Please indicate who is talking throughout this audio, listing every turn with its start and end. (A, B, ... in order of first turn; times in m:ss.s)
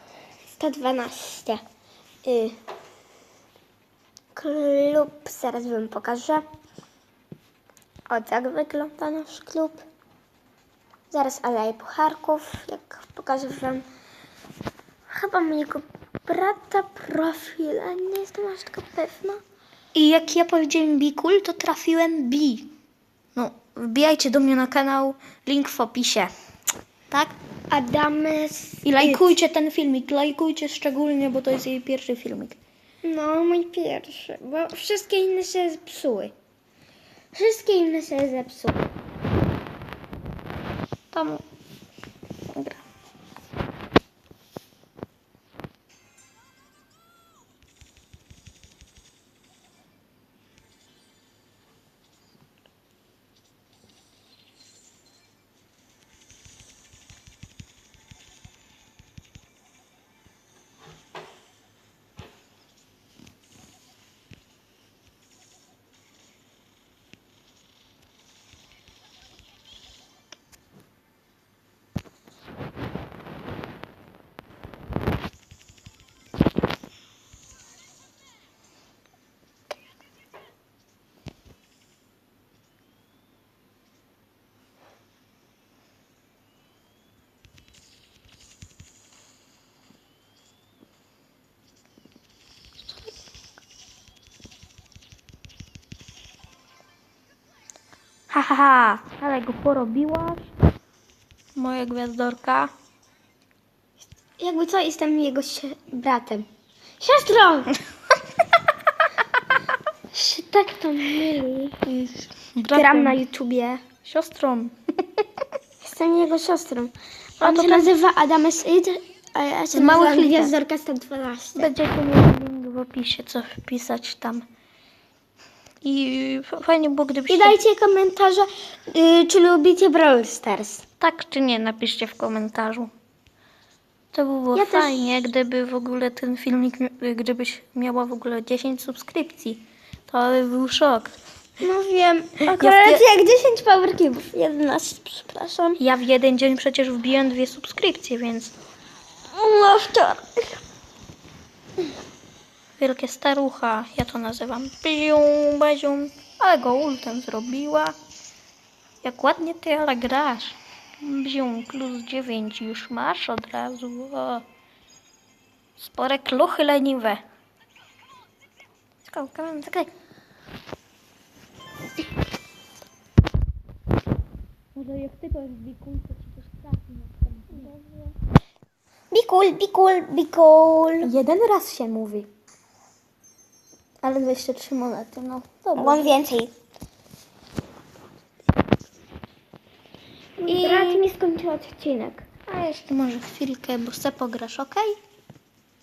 0:00.6-0:01.6 A
0:02.2-0:02.6 A
0:04.3-0:06.4 A
0:08.1-0:09.8 A
0:11.1-0:13.8 A
0:15.1-0:19.4 A
0:19.9-0:22.7 B
0:23.4-0:26.3 B
0:27.1-0:27.3 B
0:27.7-0:29.4 A
0:28.8-0:32.6 B
0:33.0-0:36.3 A
0:37.3-0:38.9 A
0:41.1-0:41.4 B
0:42.5-0:42.8 B
1:38.3-1:40.5 B
1:41.6-1:42.7 B
1:44.4-1:46.5 A
1:47.0-1:47.8 A
1:50.1-1:51.8 A
1:51.8-1:53.2 B
1:52.7-1:53.8 A
1:54.0-1:55.2 B
1:55.8-2:01.7 A
1:57.4-1:57.9 B
1:59.7-2:00.5 B
2:01.6-2:04.5 B
2:05.8-2:07.6 B
2:07.3-2:10.8 A
2:11.0-2:12.9 B
2:14.1-2:21.1 B
2:14.5-2:15.2 A
2:21.6-2:25.8 A
2:22.5-2:23.0 B
2:25.8-2:28.5 B
2:29.3-2:30.6 A
2:32.8-2:38.0 B
2:39.0-2:44.4 B
2:45.8-2:47.2 B
2:49.0-2:49.9 B
2:54.8-2:57.7 B
2:57.5-2:58.1 A
2:59.1-3:01.1 A
3:01.0-3:02.3 B
3:04.0-3:06.2 B
3:05.8-3:06.5 A
3:10.4-3:12.3 A
3:10.5-3:11.0 B
3:12.5-3:15.0 B